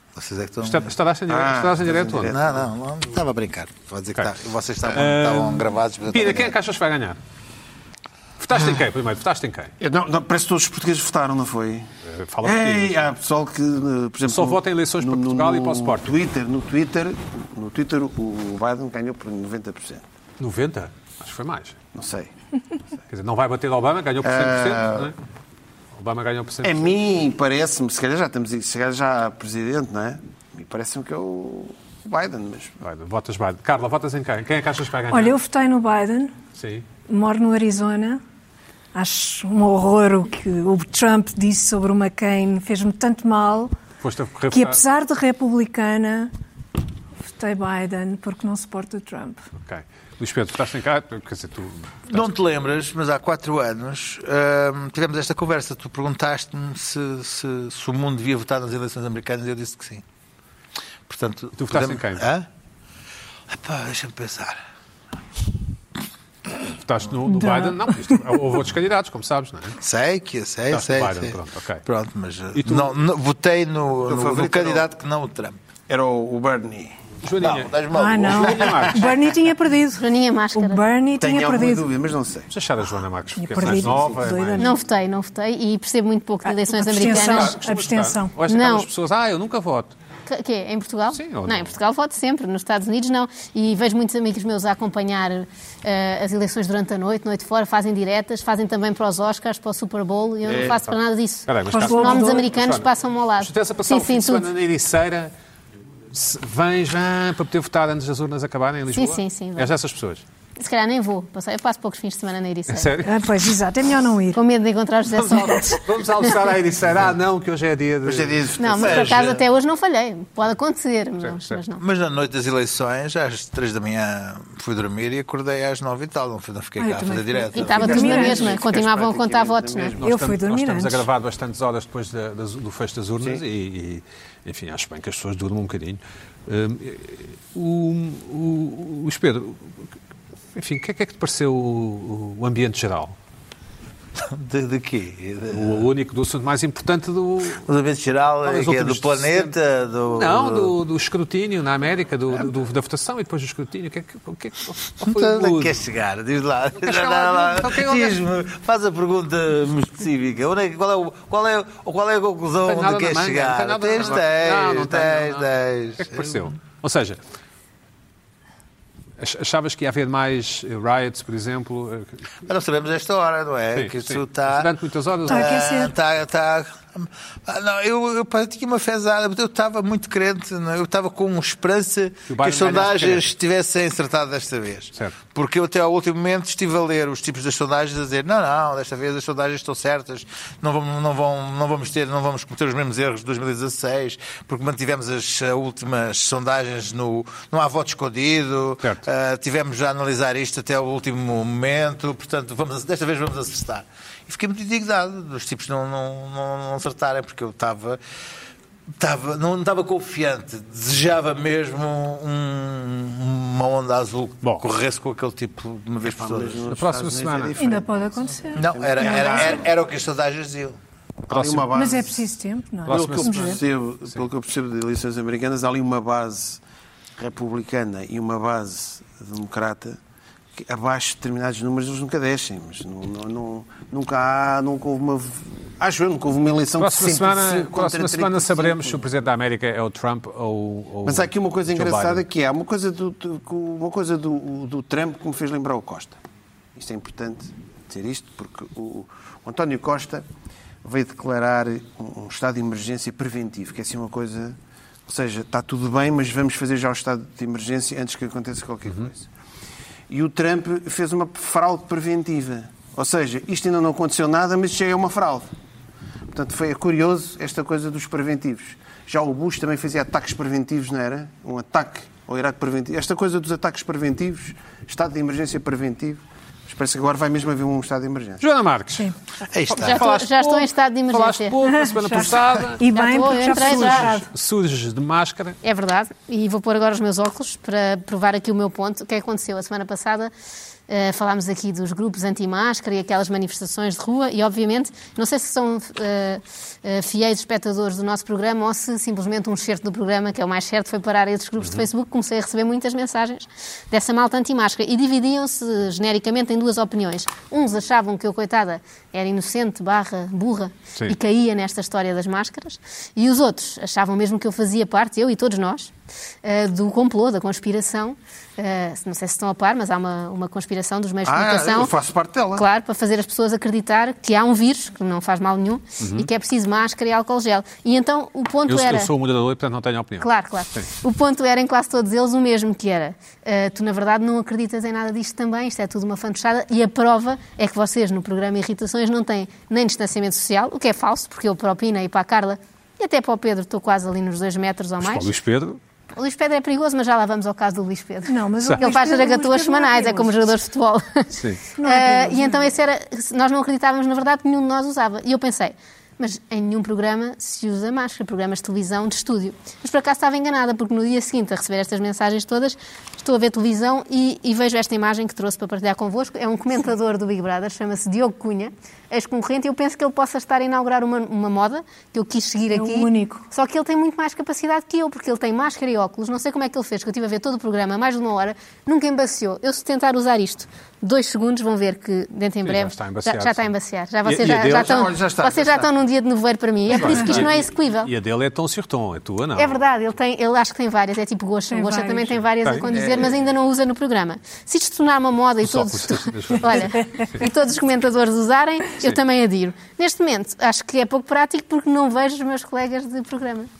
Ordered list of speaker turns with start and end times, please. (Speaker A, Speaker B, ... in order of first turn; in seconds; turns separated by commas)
Speaker A: 0.1-0.9, Speaker B: 0.6-2.3, Speaker C: 1.3-2.7, Speaker A: 2.1-6.6, Speaker B: 4.9-7.2, Speaker B: 8.4-9.7, Speaker C: 9.8-11.9, Speaker B: 12.0-13.1, Speaker C: 12.4-20.0, Speaker B: 14.2-16.1, Speaker B: 20.4-21.8, Speaker C: 21.9-22.3, Speaker B: 23.1-25.1, Speaker C: 24.2-25.1, Speaker B: 25.9-27.0, Speaker C: 26.6-32.8, Speaker B: 32.8-35.4, Speaker D: 35.1-36.3, Speaker B: 36.6-36.8, Speaker D: 37.0-38.2, Speaker D: 38.9-43.7, Speaker B: 44.0-44.8, Speaker D: 44.5-46.3, Speaker D: 47.3-49.5, Speaker B: 49.6-52.3, Speaker A: 52.1-60.0, Speaker A: 61.1-62.5, Speaker B: 61.6-62.2, Speaker A: 63.5-64.6, Speaker B: 66.8-69.8, Speaker D: 67.2-68.2, Speaker A: 69.8-75.6, Speaker B: 70.7-71.8, Speaker B: 72.5-72.9, Speaker C: 74.0-74.9, Speaker C: 75.9-76.9, Speaker B: 77.2-77.7, Speaker A: 77.4-79.1, Speaker D: 77.9-81.9, Speaker B: 78.2-79.0, Speaker E: 80.0-80.8, Speaker C: 81.2-82.5, Speaker B: 82.5-84.7, Speaker D: 83.3-84.7, Speaker C: 83.6-84.2, Speaker E: 84.6-87.6, Speaker D: 86.5-88.3, Speaker B: 87.0-89.9, Speaker E: 88.5-88.9, Speaker E: 90.3-104.5, Speaker B: 91.1-91.7, Speaker C: 100.4-100.8, Speaker B: 100.5-102.9, Speaker D: 101.7-102.5, Speaker B: 103.4-105.3, Speaker B: 106.1-110.2, Speaker E: 108.9-109.7, Speaker E: 110.6-113.0, Speaker B: 112.7-113.1, Speaker D: 113.0-114.4, Speaker E: 114.3-115.8, Speaker B: 115.2-118.5, Speaker D: 115.2-115.8, Speaker C: 118.0-119.3, Speaker E: 118.6-121.8, Speaker A: 118.8-119.4, Speaker B: 121.2-121.6, Speaker A: 121.8-128.0, Speaker D: 126.8-128.5, Speaker E: 127.5-129.9, Speaker C: 127.6-130.0, Speaker B: 130.0-139.7, Speaker D: 130.0-131.1, Speaker B: 140.5-143.1, Speaker A: 144.2-145.9, Speaker B: 145.5-147.6, Speaker A: 147.6-150.7, Speaker B: 148.4-149.5, Speaker B: 150.1-155.8, Speaker A: 155.0-166.5, Speaker B: 156.8-158.2, Speaker B: 162.7-167.2, Speaker B: 169.2-172.2, Speaker A: 172.4-174.7, Speaker B: 173.7-175.6, Speaker A: 175.3-208.0, Speaker D: 175.3-175.9, Speaker B: 182.3-183.3, Speaker A: 209.0-216.7, Speaker B: 214.4-214.7, Speaker C: 216.0-219.7, Speaker B: 216.7-217.6, Speaker D: 217.6-219.4, Speaker A: 218.5-220.8, Speaker C: 221.3-222.1, Speaker B: 221.3-221.7, Speaker D: 221.7-223.6, Speaker B: 222.8-224.2, Speaker C: 222.9-226.6, Speaker C: 227.2-230.0, Speaker C: 230.6-239.1, Speaker B: 236.8-242.2, Speaker C: 241.0-246.2, Speaker C: 246.8-250.2, Speaker C: 250.8-259.3, Speaker C: 260.1-265.5, Speaker C: 266.3-278.4, Speaker B: 278.4-279.1, Speaker A: 279.5-280.0, Speaker B: 279.7-282.8, Speaker E: 279.8-281.5, Speaker D: 281.6-284.3, Speaker E: 282.9-284.1, Speaker B: 283.4-285.6, Speaker E: 285.6-290.3, Speaker E: 290.9-315.9, Speaker B: 301.6-301.9, Speaker E: 316.4-321.9, Speaker C: 321.2-322.6, Speaker E: 322.6-329.1, Speaker B: 326.0-326.3, Speaker B: 328.7-330.9, Speaker E: 330.2-345.3, Speaker B: 345.0-345.8, Speaker E: 346.2-388.1, Speaker D: 348.2-350.4, Speaker B: 351.3-351.6, Speaker D: 351.8-352.7, Speaker D: 372.7-373.4, Speaker B: 382.6-383.7, Speaker B: 384.2-385.0, Speaker C: 384.6-385.9, Speaker B: 386.9-389.8, Speaker C: 386.9-387.6, Speaker E: 389.6-403.7, Speaker D: 391.7-392.4, Speaker B: 392.6-392.9, Speaker C: 392.9-393.4, Speaker B: 395.6-397.4